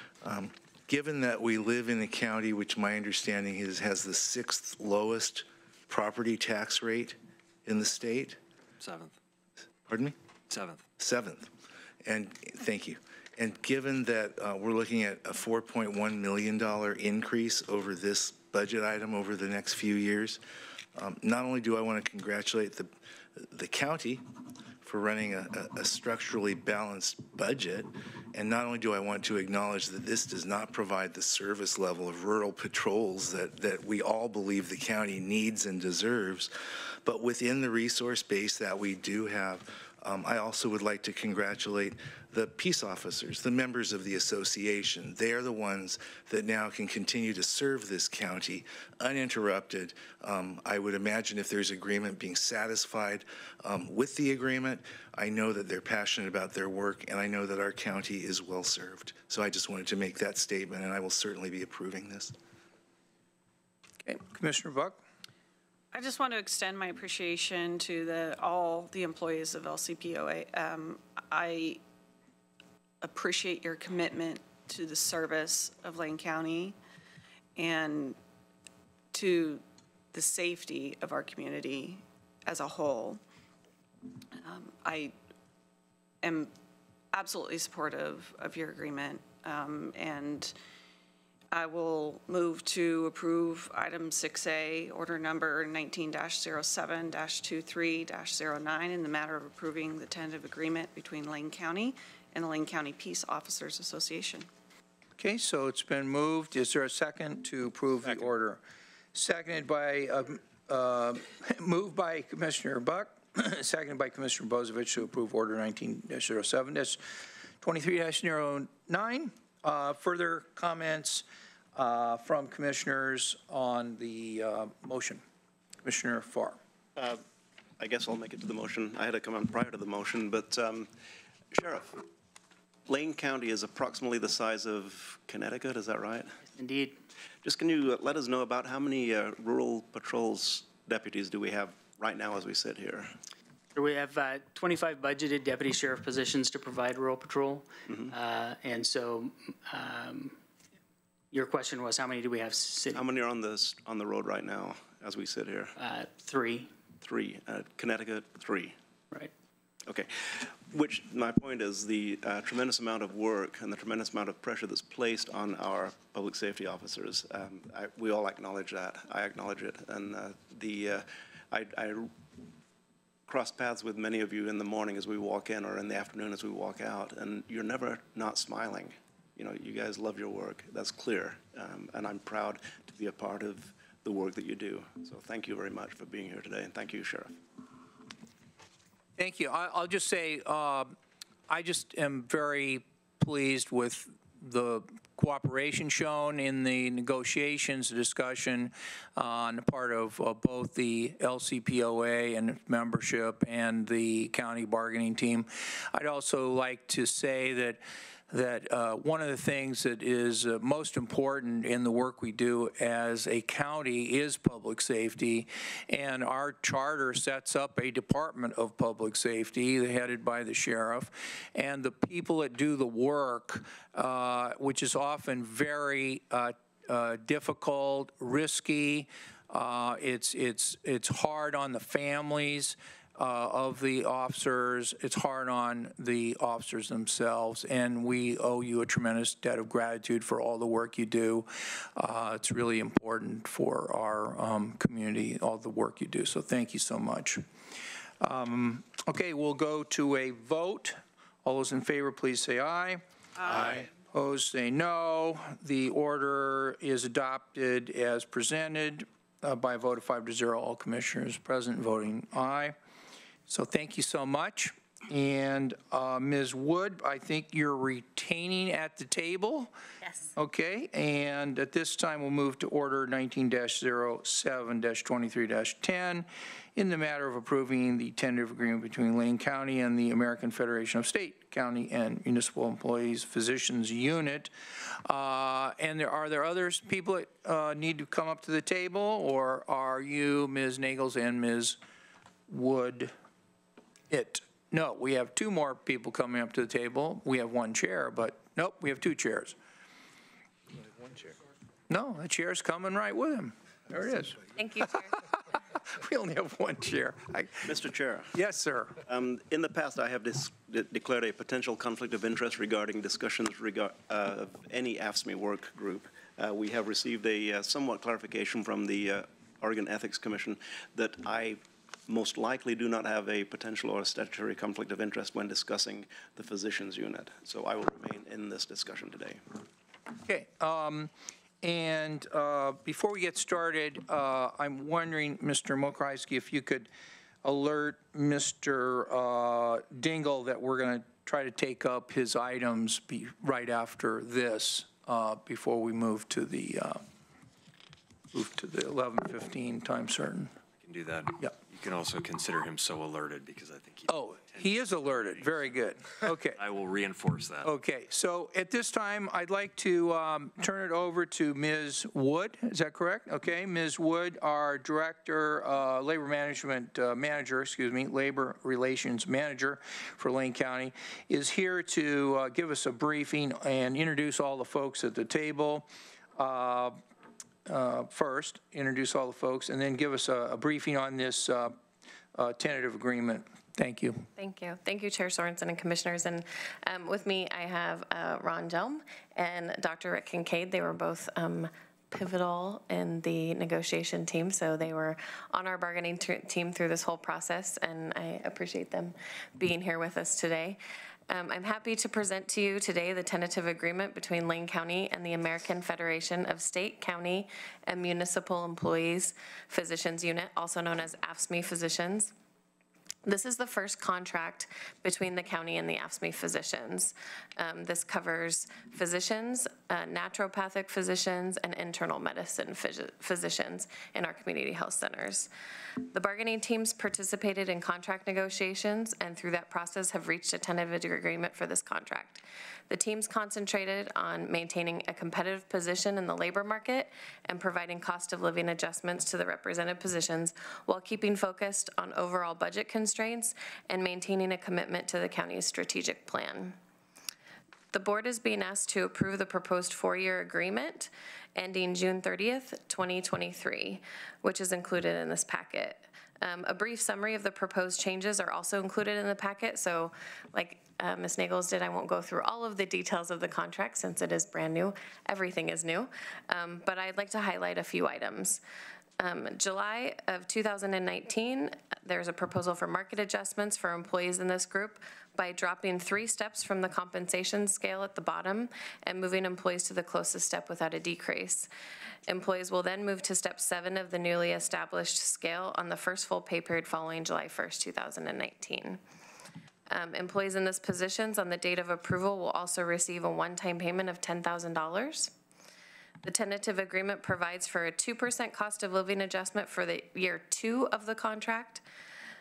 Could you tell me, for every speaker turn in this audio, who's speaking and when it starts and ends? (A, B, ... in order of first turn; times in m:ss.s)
0:00.2-0:08.4 A
0:08.8-0:09.2 B
0:09.9-0:10.2 A
0:10.5-0:10.8 B
0:11.0-0:11.5 A
0:12.0-0:20.4 A
0:21.0-0:24.2 A
0:24.8-0:36.5 A
0:37.0-1:02.3 A
1:04.0-1:05.0 C
1:05.9-1:11.8 D
1:13.0-1:16.8 D
1:17.6-1:18.2 D
1:19.1-1:23.2 D
1:24.4-1:25.1 D
1:26.2-1:26.5 D
1:27.1-1:30.5 D
1:31.5-1:44.5 D
1:45.2-1:48.6 C
1:49.2-2:05.2 C
2:05.8-2:06.6 C
2:07.0-2:07.2 E
2:07.8-2:10.9 E
2:11.5-2:12.0 E
2:12.9-2:16.4 E
2:16.4-2:17.0 F
2:17.4-2:23.1 E
2:23.7-2:30.4 F
2:27.9-2:28.1 E
2:31.3-2:33.1 F
2:32.9-2:35.7 E
2:35.8-2:36.7 F
2:37.0-2:38.8 E
2:39.9-2:52.1 E
2:53.3-3:07.3 E
3:09.2-3:10.9 C
3:11.5-4:07.4 C
4:08.2-4:22.8 C
4:23.5-4:29.7 C
4:30.4-4:51.8 C
4:52.5-4:53.1 C
4:54.1-4:59.6 C
5:00.9-5:01.3 A
5:01.9-5:04.4 C
5:04.6-5:05.2 G
5:04.9-5:07.7 C
5:07.6-5:08.4 E
5:08.3-5:09.0 C
5:09.1-5:29.4 E
5:30.3-5:31.1 C
5:31.6-5:36.9 C
5:37.4-5:47.0 C
5:48.3-5:50.5 C
5:50.8-5:57.7 B
5:54.1-5:56.6 C
5:57.6-6:17.0 C
6:17.7-6:21.8 C
6:22.3-6:24.3 C
6:24.4-6:40.8 G
6:41.3-6:52.3 G
6:53.2-7:05.5 G
7:06.1-7:26.8 G
7:27.9-7:48.6 G
7:49.2-8:01.7 G
8:02.3-8:09.0 G
8:09.9-8:15.3 G
8:16.2-8:21.8 G